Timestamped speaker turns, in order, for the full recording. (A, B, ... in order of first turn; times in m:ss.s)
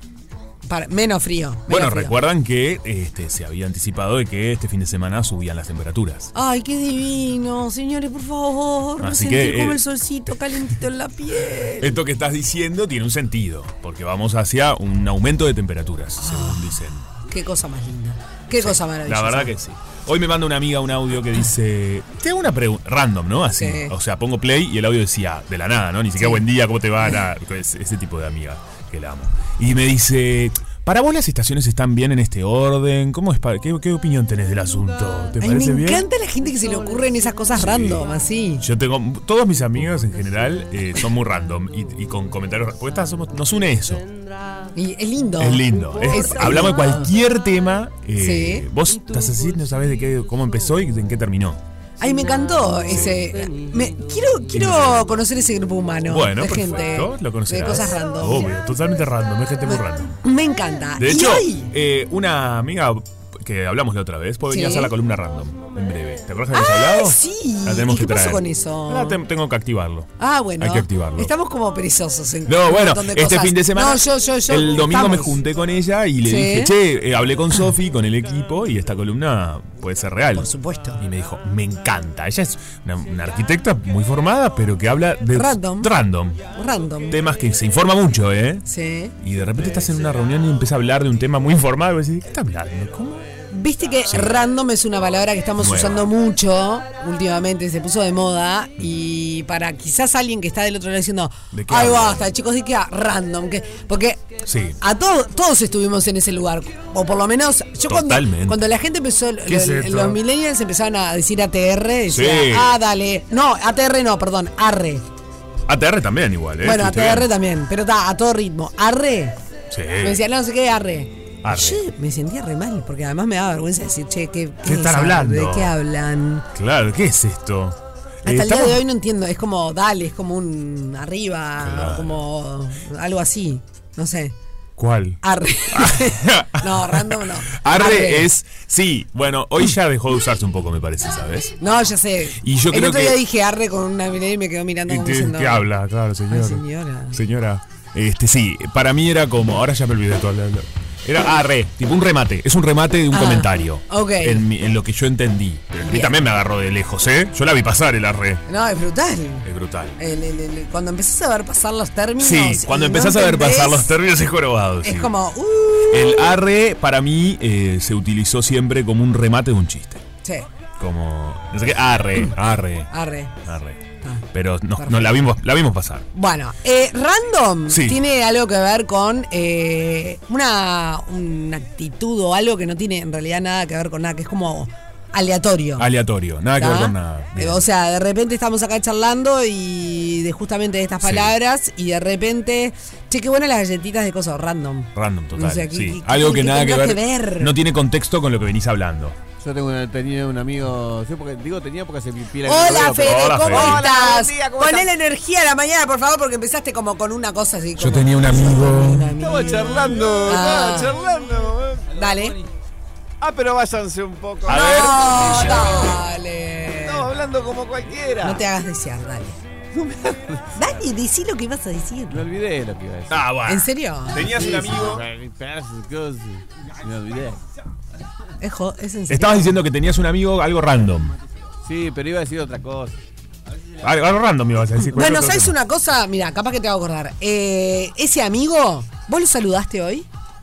0:00.6-0:02.1 A
0:01.7-0:06.3 B
0:06.3-0:12.0 A
0:09.0-0:09.8 B
0:11.8-0:17.1 B
0:16.2-0:19.5 A
0:18.5-0:36.0 B
0:23.6-0:23.9 A
0:26.2-0:26.4 A
0:35.4-0:38.6 A
0:37.5-0:44.0 B
0:44.7-0:47.1 A
0:45.4-0:51.6 B
0:48.2-0:48.7 A
0:52.0-0:58.5 A
0:52.9-0:53.2 B
0:54.5-0:55.0 B
0:56.1-1:00.2 B
0:59.6-1:01.7 A
1:01.0-1:11.3 B
1:04.5-1:04.9 A
1:06.5-1:09.2 A
1:10.2-1:15.4 A
1:12.4-1:26.4 B
1:16.2-1:16.7 A
1:20.3-1:21.0 A
1:25.3-1:25.9 A
1:26.5-1:27.2 A
1:27.1-1:28.6 B
1:28.7-1:29.1 A
1:29.2-1:33.3 B
1:33.5-1:44.2 A
1:34.0-1:34.4 B
1:35.6-1:36.1 B
1:41.5-1:42.2 B
1:44.4-1:44.8 B
1:44.8-1:55.0 A
1:47.9-1:48.6 B
1:49.4-1:50.2 B
1:52.1-1:52.8 B
1:55.7-1:57.3 B
1:56.6-1:59.4 A
1:59.7-2:00.2 B
2:00.0-2:06.5 A
2:01.4-2:01.8 B
2:04.6-2:05.7 B
2:06.5-2:08.8 B
2:08.2-2:14.3 A
2:11.6-2:12.2 B
2:14.8-2:15.2 B
2:15.2-2:18.3 A
2:15.7-2:21.5 B
2:21.6-2:25.7 A
2:22.4-2:23.2 B
2:24.8-2:38.4 B
2:26.3-2:27.2 A
2:33.1-2:34.5 A
2:35.8-2:36.2 A
2:38.5-2:39.5 A
2:39.4-2:40.0 B
2:40.0-2:43.9 A
2:42.2-2:45.1 B
2:44.8-2:46.4 A
2:45.9-2:50.0 B
2:50.8-2:52.9 B
2:52.9-2:53.3 A
2:53.4-2:56.1 B
2:54.8-2:55.2 A
2:56.1-3:05.9 A
2:57.7-2:58.0 B
3:05.8-3:07.6 B
3:06.6-3:17.6 A
3:11.0-3:11.3 B
3:14.9-3:19.2 B
3:19.4-3:24.9 C
3:22.4-3:30.9 A
3:23.0-3:23.8 B
3:27.8-3:29.2 B
3:29.2-3:32.3 C
3:31.9-3:32.4 A
3:33.2-3:36.0 C
3:34.5-3:35.1 B
3:34.5-3:37.1 A
3:36.8-3:38.4 C
3:38.2-3:39.4 A
3:39.7-3:40.6 C
3:40.5-3:42.2 A
3:42.1-3:43.3 C
3:43.1-3:45.0 B
3:43.4-3:44.3 A
3:44.2-3:47.4 C
3:48.4-3:49.6 A
3:49.1-3:51.2 B
3:51.6-3:53.0 C
3:53.8-3:55.5 B
3:55.0-4:00.1 A